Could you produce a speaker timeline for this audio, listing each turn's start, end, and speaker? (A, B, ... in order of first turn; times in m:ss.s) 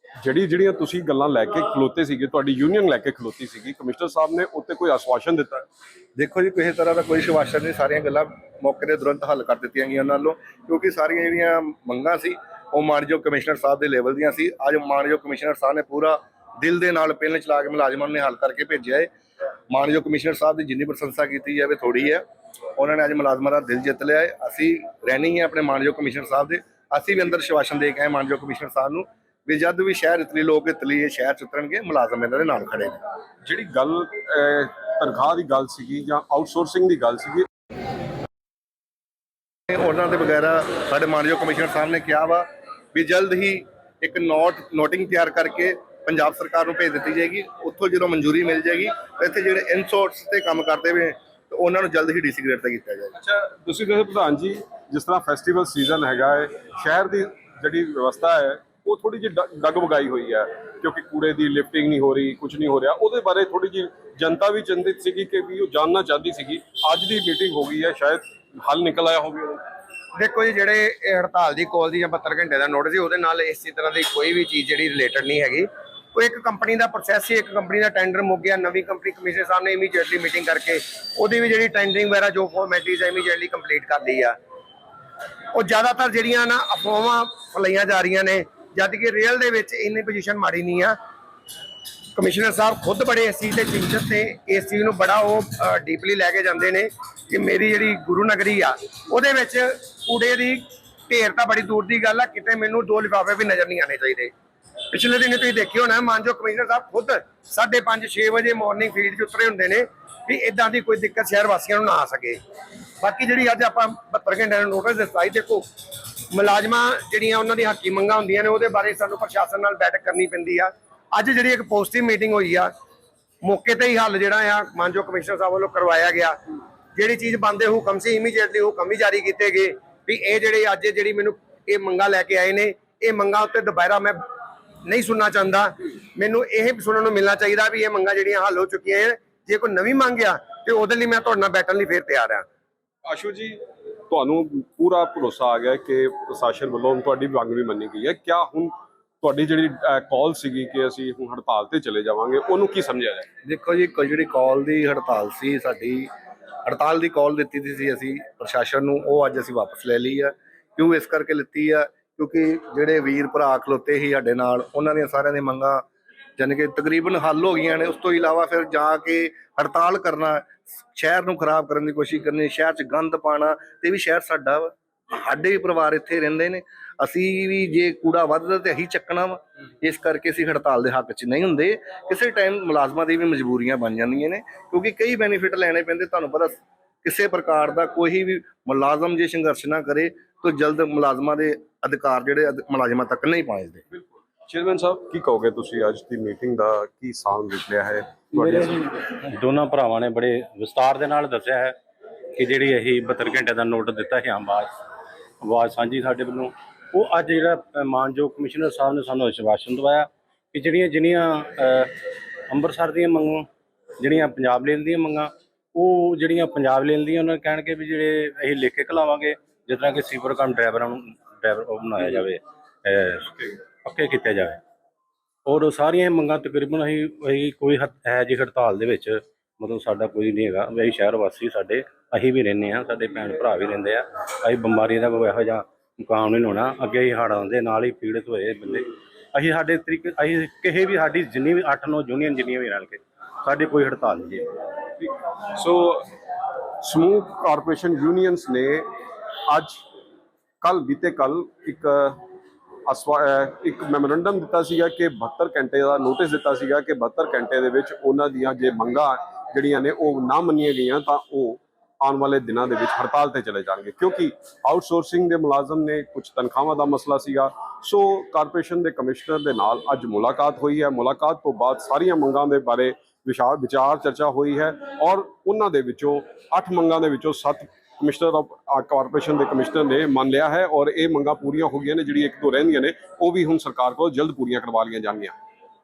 0:00.2-0:05.6 A
0:06.2-0:19.1 B
0:19.7-0:22.2 B
0:22.8-0:33.0 B
0:33.4-0:37.4 A
0:39.7-0:53.1 B
0:53.2-1:09.6 A
1:10.2-1:24.4 C
1:25.5-1:31.0 C
1:32.1-1:44.3 C
1:44.9-1:52.4 C
1:53.0-1:55.6 C
1:56.3-2:02.7 C
2:03.4-2:06.4 C
2:06.9-2:14.2 C
2:14.8-2:22.4 C
2:23.0-2:33.3 A
2:33.4-2:36.1 B
2:36.6-2:45.9 B
2:46.4-3:13.8 B
3:13.9-3:18.7 A
3:18.5-3:21.7 D
3:22.4-3:24.7 D
3:25.4-3:31.9 D
3:32.5-3:33.5 D
3:34.0-3:44.6 D
3:45.4-4:04.5 D
4:05.0-4:06.0 A
4:06.8-4:08.9 A
4:09.5-4:09.8 A
4:10.6-4:12.2 A
4:12.9-4:45.3 A